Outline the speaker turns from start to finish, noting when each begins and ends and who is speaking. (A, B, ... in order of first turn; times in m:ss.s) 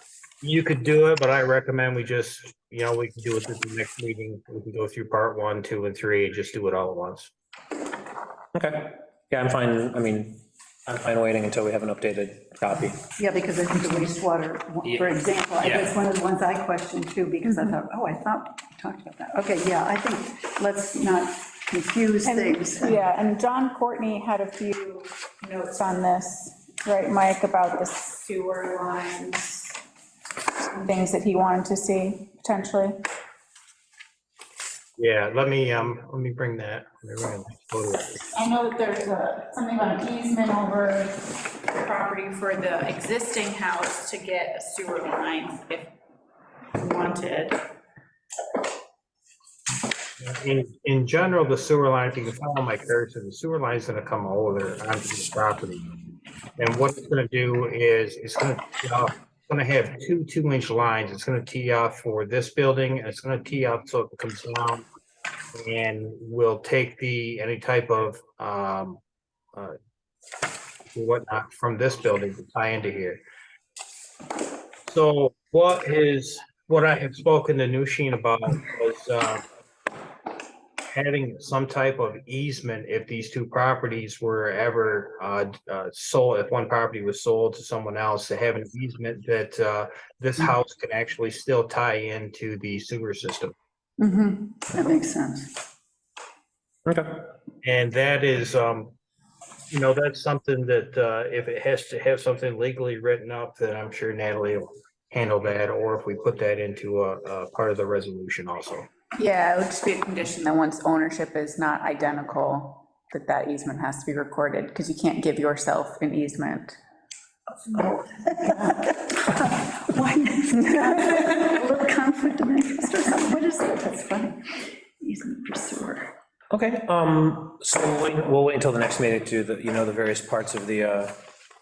0:00.4-0:07.3 A
0:08.5-0:13.0 B
0:13.2-0:23.0 C
0:14.8-0:16.0 B
0:22.2-0:29.7 D
0:30.7-0:33.0 D
0:35.0-0:38.2 A
0:38.3-0:45.9 D
0:46.8-0:47.6 D
0:50.2-0:55.9 A
0:56.6-1:04.8 A
1:05.5-1:09.0 A
1:10.9-1:13.2 A
1:14.8-1:19.4 A
1:20.9-1:33.5 A
1:34.0-1:35.5 C
1:36.8-1:37.3 B
1:37.6-1:39.0 A
1:39.7-1:48.9 A
1:49.1-1:56.8 D
1:57.7-2:06.1 C
2:01.1-2:01.4 D
2:06.5-2:11.1 B